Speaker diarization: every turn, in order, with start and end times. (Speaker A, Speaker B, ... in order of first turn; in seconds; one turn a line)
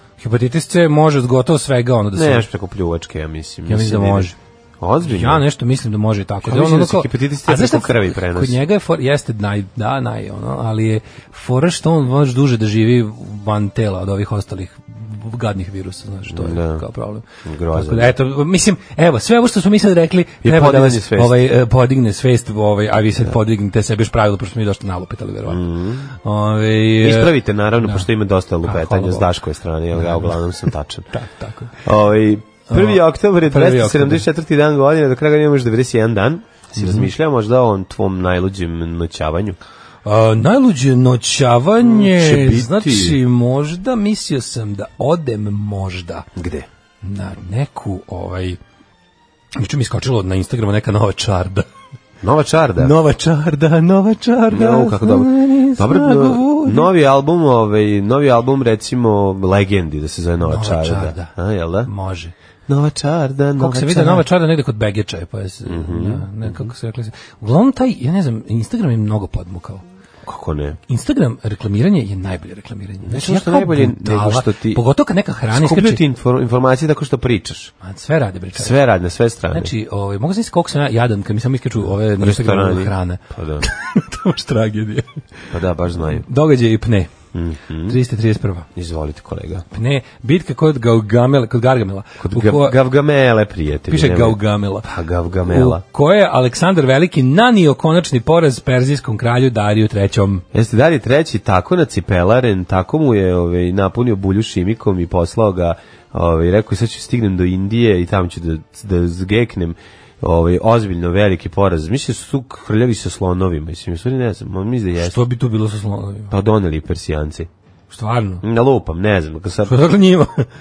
Speaker A: 0.2-2.5
Speaker B: 2.1-5.4
Speaker A: 3.7-4.3
Speaker A: 5.0-25.6
Speaker B: 6.4-8.6
Speaker B: 16.3-16.8
Speaker B: 17.4-18.1
Speaker B: 20.4-21.4
Speaker B: 25.5-26.1
Speaker A: 26.2-28.1
Speaker B: 27.0-31.1
Speaker A: 28.6-29.3
Speaker A: 29.9-30.4
Speaker A: 31.1-31.7
Speaker B: 31.8-39.6
Speaker A: 32.7-34.2
Speaker A: 36.8-37.1
Speaker A: 40.0-46.2
Speaker B: 41.8-43.2
Speaker B: 46.4-46.7
Speaker A: 47.0-48.6
Speaker A: 49.5-51.7
Speaker B: 52.2-52.9
Speaker A: 52.8-56.9
Speaker B: 54.5-61.9
Speaker A: 60.4-61.3
Speaker A: 61.9-62.3
Speaker B: 62.7-64.3
Speaker A: 63.6-69.8
Speaker B: 65.7-66.7
Speaker B: 70.2-70.8
Speaker A: 70.9-76.0
Speaker B: 73.0-74.8
Speaker B: 75.5-77.7
Speaker A: 77.8-78.8
Speaker B: 78.5-79.7
Speaker A: 79.5-85.1
Speaker B: 82.2-83.7
Speaker B: 85.5-86.2
Speaker A: 86.2-87.1
Speaker B: 87.3-88.0
Speaker A: 87.9-88.7
Speaker B: 88.7-89.6
Speaker A: 89.7-92.8
Speaker B: 92.2-95.8
Speaker A: 93.9-94.9
Speaker A: 95.5-100.4
Speaker B: 100.5-115.2
Speaker A: 115.0-116.3
Speaker B: 116.3-117.5
Speaker A: 117.9-118.4
Speaker B: 118.4-119.8
Speaker A: 119.7-120.5